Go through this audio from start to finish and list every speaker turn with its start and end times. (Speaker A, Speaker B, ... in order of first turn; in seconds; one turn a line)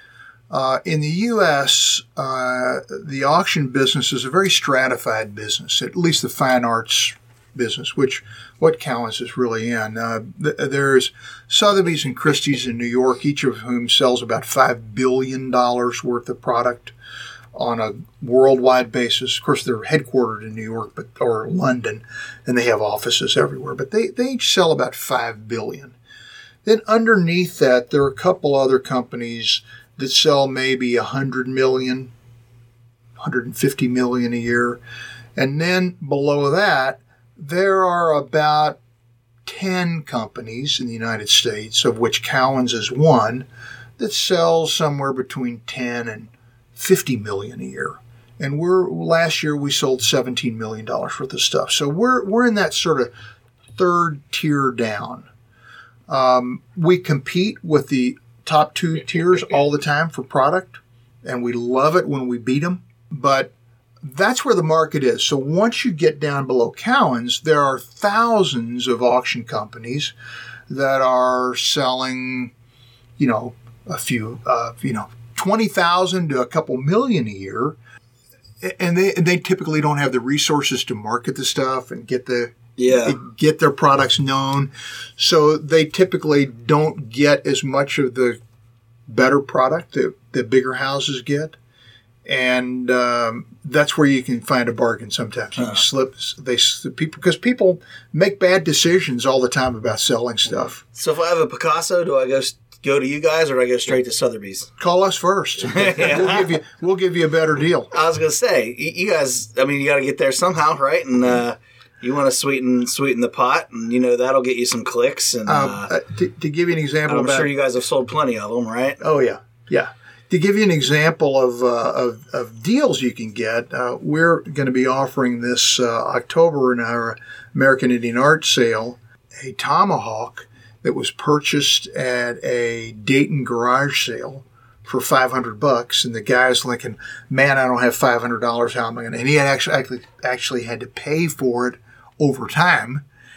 Speaker A: 0.5-16.9
Speaker A: 17.5-25.9
Speaker A: 26.6-32.1
Speaker A: 33.2-34.8
Speaker A: 35.4-38.8
Speaker A: 39.5-43.5
Speaker A: 44.0-53.1
Speaker A: 53.8-55.3
Speaker A: 56.1-70.1
Speaker A: 70.7-72.5
Speaker A: 73.2-77.8
Speaker A: 78.6-88.4
Speaker B: 82.8-83.2
Speaker A: 89.1-91.5
Speaker A: 92.2-100.8
Speaker B: 101.0-104.7
Speaker A: 104.8-107.9
Speaker B: 105.6-106.5
Speaker B: 107.9-115.9
Speaker A: 115.4-117.5
Speaker B: 117.1-119.0
Speaker A: 119.0-143.0